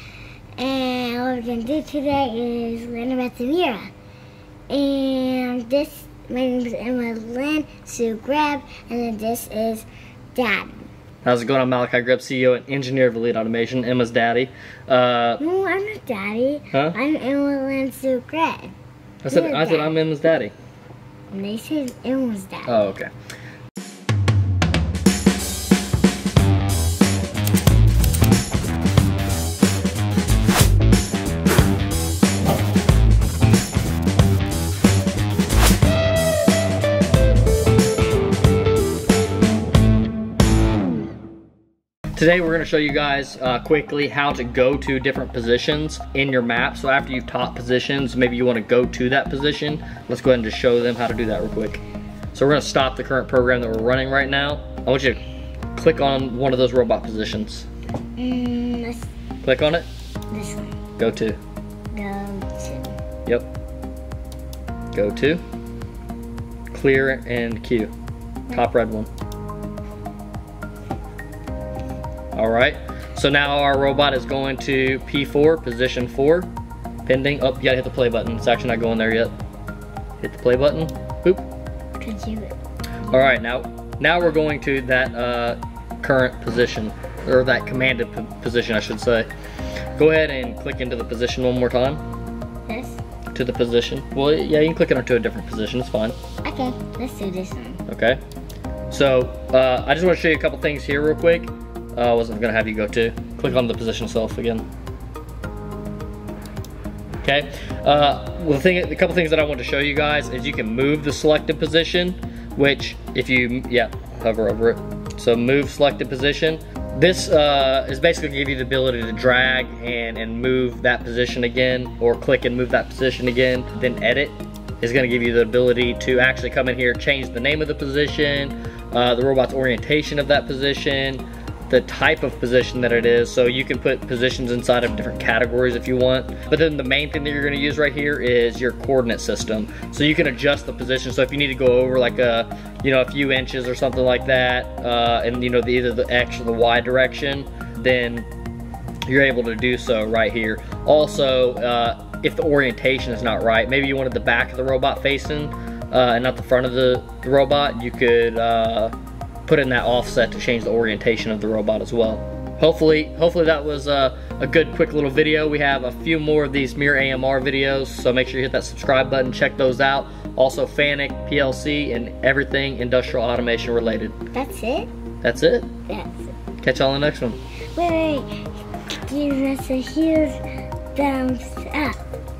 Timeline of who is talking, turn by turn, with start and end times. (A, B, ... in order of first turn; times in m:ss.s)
0:00.6-0:03.9 A
0:04.7-0:10.9 A
0:11.2-0:15.4 B
0:15.4-0:18.7 A
0:19.2-0:20.5 B
0:19.3-0:20.0 A
0:21.3-0:22.8 A
0:22.6-0:23.1 B
0:42.2-0:51.8 B
0:52.3-0:55.2 B
0:55.7-0:57.7 B
0:58.2-0:59.1 A
0:59.4-0:59.8 B
1:00.3-1:00.8 A
1:01.0-1:01.4 B
1:01.9-1:02.9 A
1:04.9-1:05.4 B
1:06.7-1:07.9 B
1:08.5-1:09.1 B
1:12.3-1:16.5 B
1:17.0-1:19.3 B
1:20.2-1:21.4 B
1:22.0-1:22.5 A
1:23.1-1:29.3 B
1:30.0-1:32.0 B
1:32.7-1:33.0 A
1:33.3-1:36.2 B
1:36.4-1:37.8 A
1:37.9-1:38.2 B
1:38.9-1:44.6 B
1:47.2-2:28.3 B
2:29.0-2:38.9 B
2:39.4-2:54.2 B
2:54.3-2:54.9 A
2:55.2-2:55.7 B
2:55.9-2:56.3 A
2:56.6-2:57.4 B
2:57.7-2:58.3 A
2:58.9-3:00.4 A
3:00.9-3:02.0 A